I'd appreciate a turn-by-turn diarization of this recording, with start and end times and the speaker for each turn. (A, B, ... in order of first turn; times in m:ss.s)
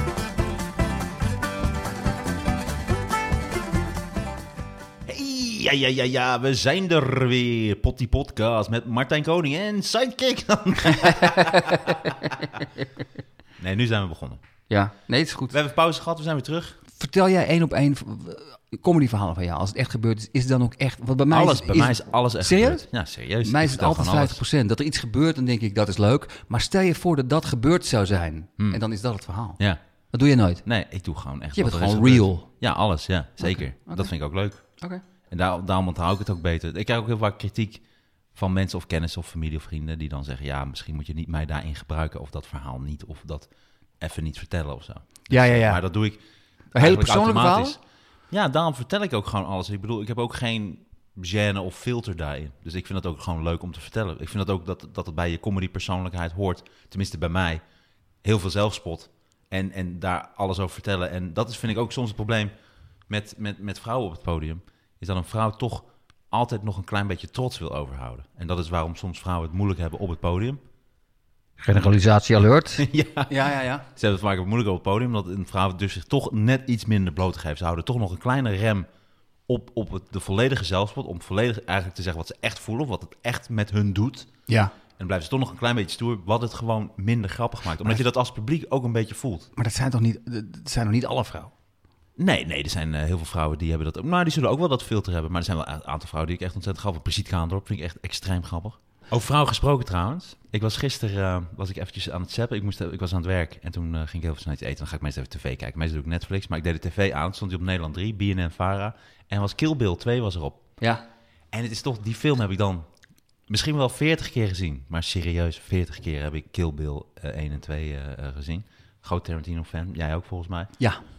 0:05.1-0:12.6 A
0:10.9-0:12.8 B
0:13.6-0:14.4 A
0:14.7-0:15.5 B
0:15.5-0:16.8 A
0:16.9-0:22.8 B
0:21.3-0:24.4 A
0:23.4-0:29.6 B
0:30.1-0:30.6 B
0:30.6-0:34.6 A
0:31.5-0:32.5 B
0:33.4-0:34.1 B
0:35.3-0:37.8 A
0:38.3-0:43.5 A
0:44.0-0:46.2 A
0:45.3-0:45.8 B
0:46.7-0:47.8 B
0:46.8-0:47.8 A
0:48.3-0:57.6 A
0:58.2-1:02.5 A
1:03.1-1:10.6 A
1:11.6-1:13.8 B
1:12.8-1:18.9 A
1:19.5-1:24.3 A
1:24.5-1:24.7 B
1:25.0-1:29.5 A
1:29.6-1:31.5 B
1:32.2-1:50.6 A
1:50.8-1:51.0 B
1:51.5-1:52.8 A
1:53.5-2:00.7 A